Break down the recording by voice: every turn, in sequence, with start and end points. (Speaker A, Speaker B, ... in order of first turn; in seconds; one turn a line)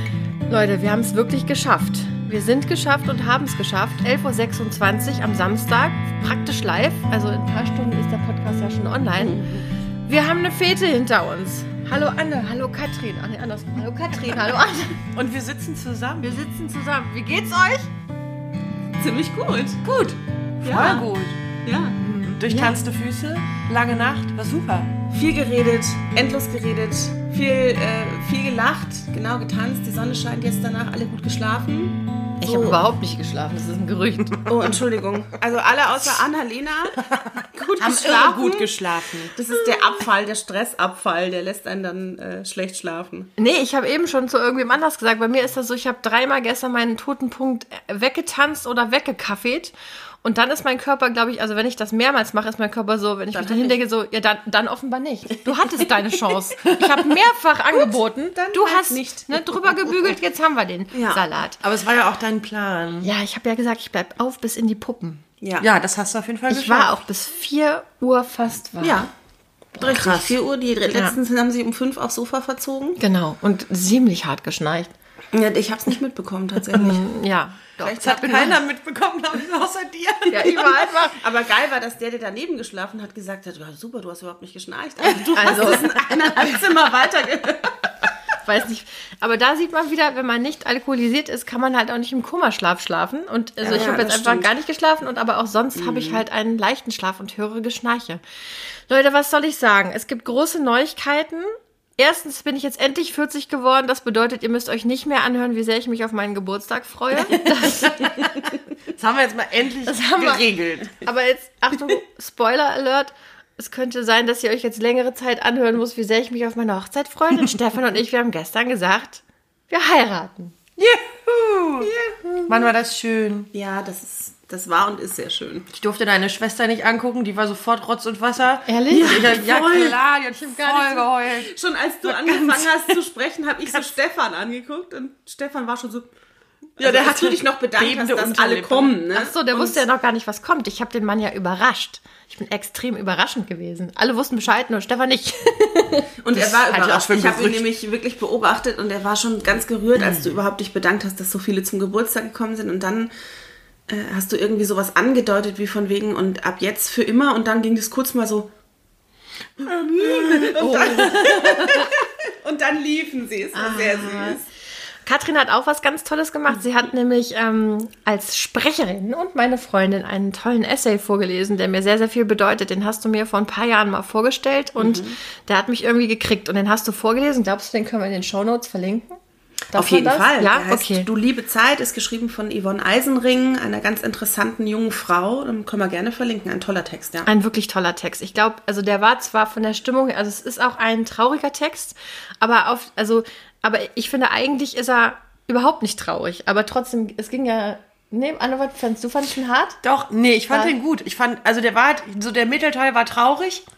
Speaker A: 0.5-9.5
Speaker B: 9.2-9.7
Speaker A: 10.1-15.0
Speaker C: 15.1-16.4
Speaker A: 16.2-17.9
Speaker B: 19.0-19.8
Speaker C: 19.8-21.4
Speaker B: 20.6-21.1
Speaker B: 21.6-22.0
Speaker A: 22.0-22.8
Speaker C: 22.2-24.9
Speaker B: 25.1-32.8
Speaker A: 32.4-34.5
Speaker B: 34.5-38.8
Speaker C: 37.8-39.3
Speaker B: 39.4-43.3
Speaker A: 43.4-61.6
Speaker B: 53.3-53.8
Speaker C: 56.6-57.0
Speaker B: 58.4-60.1
Speaker B: 60.9-61.2
Speaker C: 61.6-63.1
Speaker A: 63.0-65.2
Speaker B: 65.4-65.7
Speaker C: 65.6-66.9
Speaker A: 66.5-69.0
Speaker B: 68.8-69.1
Speaker B: 69.8-73.0
Speaker C: 69.8-70.4
Speaker A: 70.9-71.2
Speaker A: 73.0-74.9
Speaker B: 75.3-77.1
Speaker A: 76.7-78.6
Speaker B: 77.8-78.5
Speaker C: 78.0-80.9
Speaker A: 80.3-81.2
Speaker B: 80.4-87.9
Speaker A: 85.3-86.0
Speaker A: 88.4-98.2
Speaker C: 93.6-94.0
Speaker B: 93.7-94.5
Speaker B: 95.8-96.2
Speaker A: 98.9-108.3
Speaker C: 107.1-111.0
Speaker A: 109.9-120.6
Speaker C: 120.8-121.9
Speaker B: 121.8-122.3
Speaker C: 122.5-123.5
Speaker B: 123.5-125.7
Speaker C: 125.7-133.0
Speaker A: 128.7-129.4
Speaker B: 129.0-130.0
Speaker A: 130.4-131.1
Speaker B: 131.3-136.1
Speaker B: 136.8-139.9
Speaker C: 136.8-139.0
Speaker A: 139.1-147.6
Speaker B: 146.2-153.1
Speaker C: 146.4-147.6
Speaker B: 153.9-158.5
Speaker B: 159.6-164.4
Speaker C: 160.4-161.9
Speaker A: 160.6-161.4
Speaker A: 163.5-164.4
Speaker A: 165.1-179.2
Speaker B: 174.8-175.2
Speaker A: 179.7-181.1
Speaker B: 179.8-187.3
Speaker A: 187.2-199.8
Speaker C: 199.8-203.6
Speaker A: 200.4-200.7